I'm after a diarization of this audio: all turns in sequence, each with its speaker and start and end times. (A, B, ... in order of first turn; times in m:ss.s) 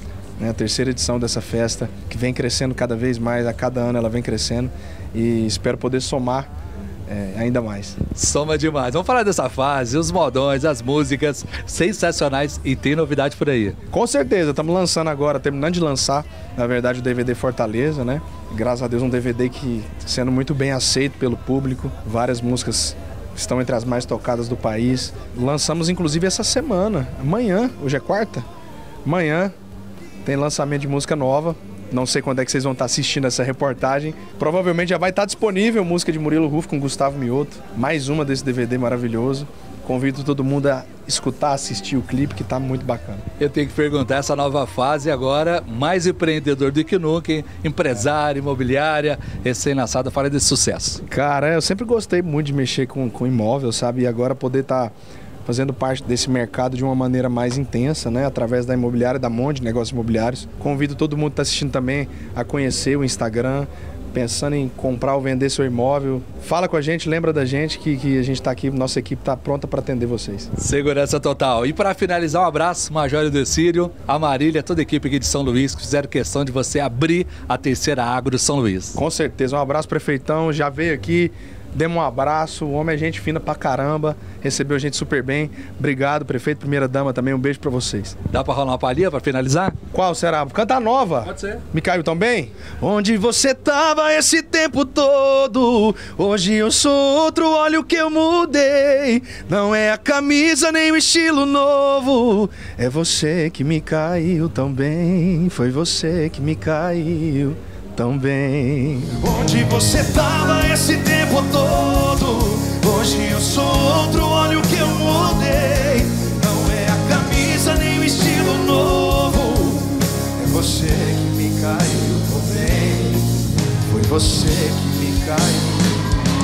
0:00.4-0:06.5 A
0:07.1-0:08.0 A
0:08.1-0:13.8 B
0:13.9-0:28.4 A
0:29.0-0:29.5 A
0:30.2-0:43.2 A
0:43.4-0:51.0 B
0:51.0-0:54.9 A
0:55.4-1:10.5 A
1:10.6-1:19.0 B
1:19.0-1:28.2 A
1:28.3-1:29.8 B
1:29.9-2:06.0 A
1:31.3-1:31.6 B